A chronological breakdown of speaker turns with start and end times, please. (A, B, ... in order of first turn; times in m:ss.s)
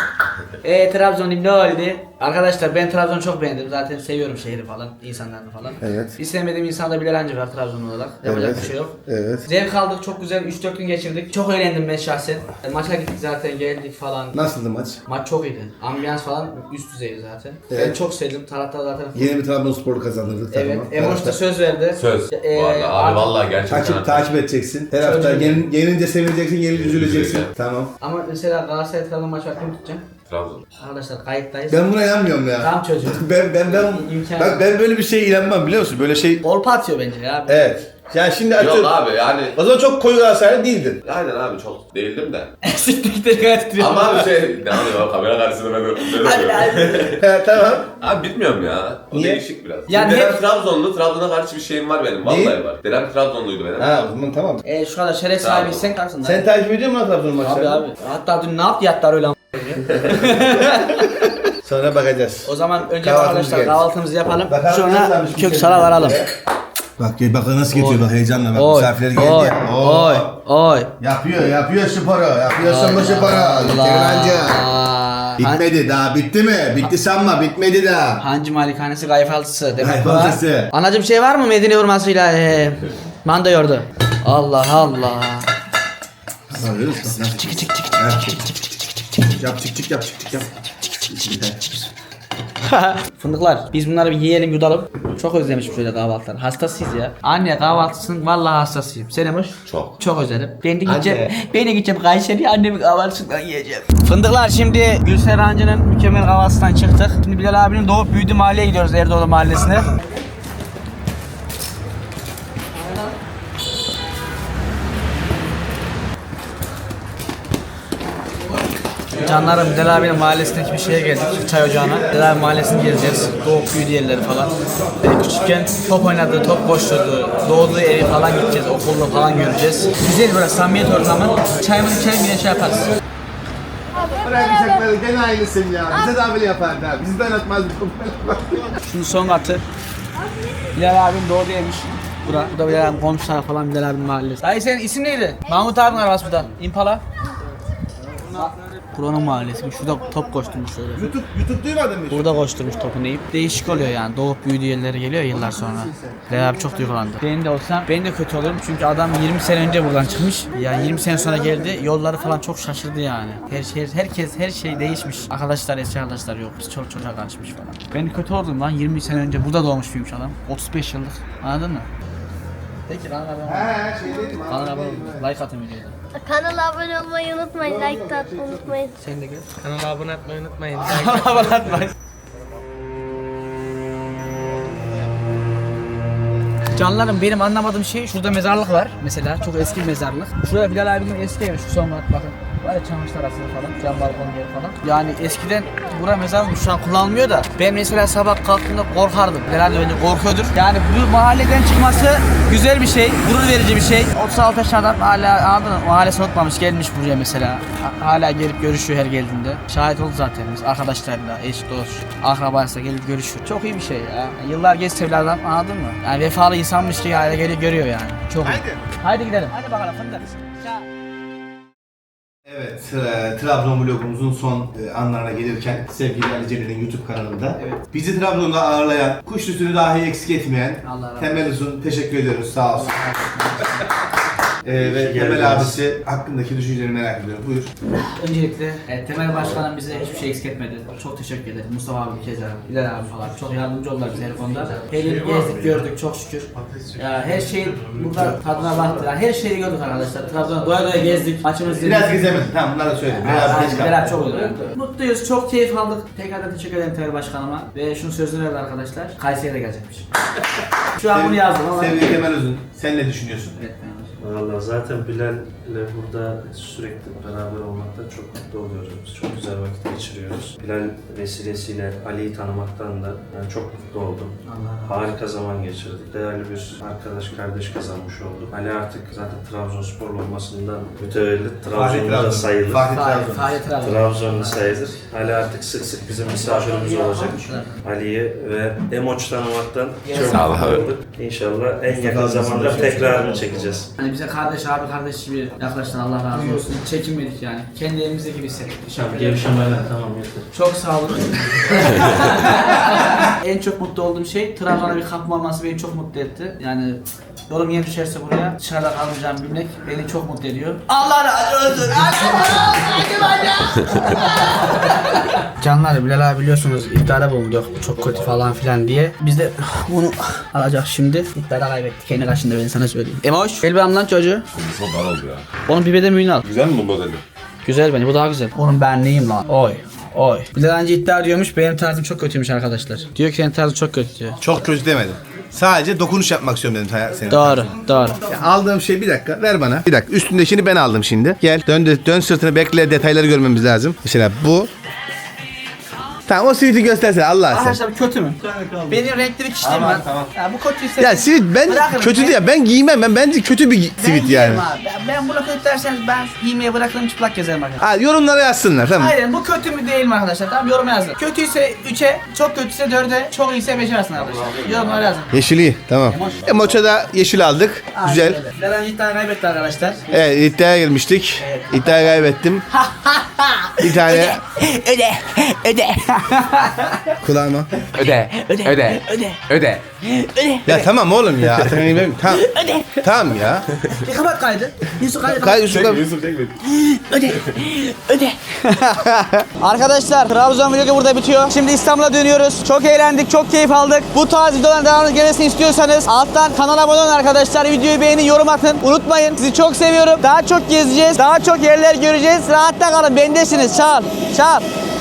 0:00.6-0:14.4 A
0:05.8-0:06.1 B
0:08.2-0:09.4 B
0:14.3-0:15.0 B
0:15.1-0:19.4 A
0:17.7-0:18.0 B
0:19.1-0:21.4 B
0:20.5-0:23.4 A
0:22.0-0:24.4 C
0:23.7-0:27.9 B
0:25.0-0:25.7 A
0:26.7-0:27.5 C
0:28.0-0:30.0 A
0:30.3-0:30.6 C
0:30.8-0:31.9 A
0:31.7-0:36.4 B
0:32.6-0:34.6 A
0:36.4-0:37.7 A
0:37.5-0:38.9 B
0:38.6-0:39.6 C
0:39.5-0:41.0 B
0:41.0-0:42.6 C
0:42.6-0:44.3 A
0:43.8-0:47.2 C
0:46.1-0:47.1 A
0:47.1-0:47.9 B
0:47.9-0:54.0 C
0:49.1-0:50.1 B
0:49.9-0:50.4 A
0:52.2-0:52.6 B
0:53.8-0:54.6 B
0:54.6-0:56.4 A
0:55.4-0:55.9 C
0:56.2-0:57.8 B
0:57.4-1:01.5 A
1:00.2-1:00.8 B
1:01.6-1:03.8 B
1:02.4-1:06.2 A
1:04.4-1:06.3 B
1:07.0-1:10.3 B
1:07.7-1:10.9 A
1:11.0-1:14.7 B
1:12.6-1:15.6 A
1:15.4-1:18.2 B
1:18.2-1:25.5 A
1:19.8-1:20.7 B
1:26.5-1:28.4 B
1:27.3-1:28.0 A
1:29.2-1:31.8 B
1:32.6-1:49.9 A
1:39.6-1:40.0 C
1:40.8-1:41.3 B
1:59.1-2:12.9 A
2:14.0-2:18.8 B
2:18.8-2:19.6 A
2:20.7-2:27.0 A
2:28.3-2:31.1 A
2:31.0-2:32.5 B
2:32.1-2:51.9 A
2:35.5-2:36.4 B
2:52.9-2:56.0 A
2:53.4-2:55.3 B
2:56.2-2:58.9 D
2:57.6-2:58.8 B
2:58.9-3:01.9 A
3:06.7-3:40.8 A
3:38.4-3:38.9 B
3:42.4-3:53.0 B
3:47.6-3:47.8 A
3:50.8-3:51.5 A
3:52.7-3:53.9 A
3:54.6-3:57.7 B
3:54.8-3:55.7 E
3:58.0-4:12.3 A
4:04.6-4:05.6 E
4:05.0-4:05.8 B
4:06.6-4:09.1 E
4:11.7-4:14.4 B
4:13.0-4:20.1 A
4:20.9-4:22.2 A
4:21.0-4:23.6 B
4:23.6-4:24.2 A
4:24.2-4:42.9 E
4:34.4-4:35.0 A
4:41.7-4:43.6 B
4:42.9-4:44.9 A
4:43.7-4:53.9 E
4:46.3-4:47.8 A
4:50.0-4:50.5 A
4:50.1-4:50.8 C
4:51.9-4:53.7 B
4:54.0-4:59.6 A
4:58.9-5:00.5 E
5:00.5-5:24.4 A
5:17.8-5:18.5 C
5:24.5-5:25.5 C
5:25.6-5:26.4 A
5:26.4-5:27.2 C
5:27.6-5:34.4 A
5:34.4-5:44.7 B
5:37.3-5:38.2 A
5:46.3-5:47.8 B
5:47.5-5:52.4 A
5:48.4-5:49.1 B
5:49.6-5:50.3 B
5:51.0-5:54.7 B
5:54.0-5:57.8 A
5:57.8-5:59.2 B
5:58.9-6:05.3 A
6:04.2-6:05.2 C
6:05.3-6:08.4 B
6:06.1-6:06.8 A
6:07.9-6:10.1 A
6:10.1-6:12.6 B
6:11.4-6:17.2 A
6:13.8-6:14.4 B
6:17.2-6:17.7 B
6:18.0-6:19.8 C
6:18.0-6:19.5 A
6:20.0-6:20.8 A
6:20.6-6:23.6 B
6:22.3-6:23.0 A
6:24.0-6:25.7 A
6:25.2-6:26.0 B
6:25.7-6:26.6 C
6:26.6-6:44.6 A
6:27.2-6:27.6 C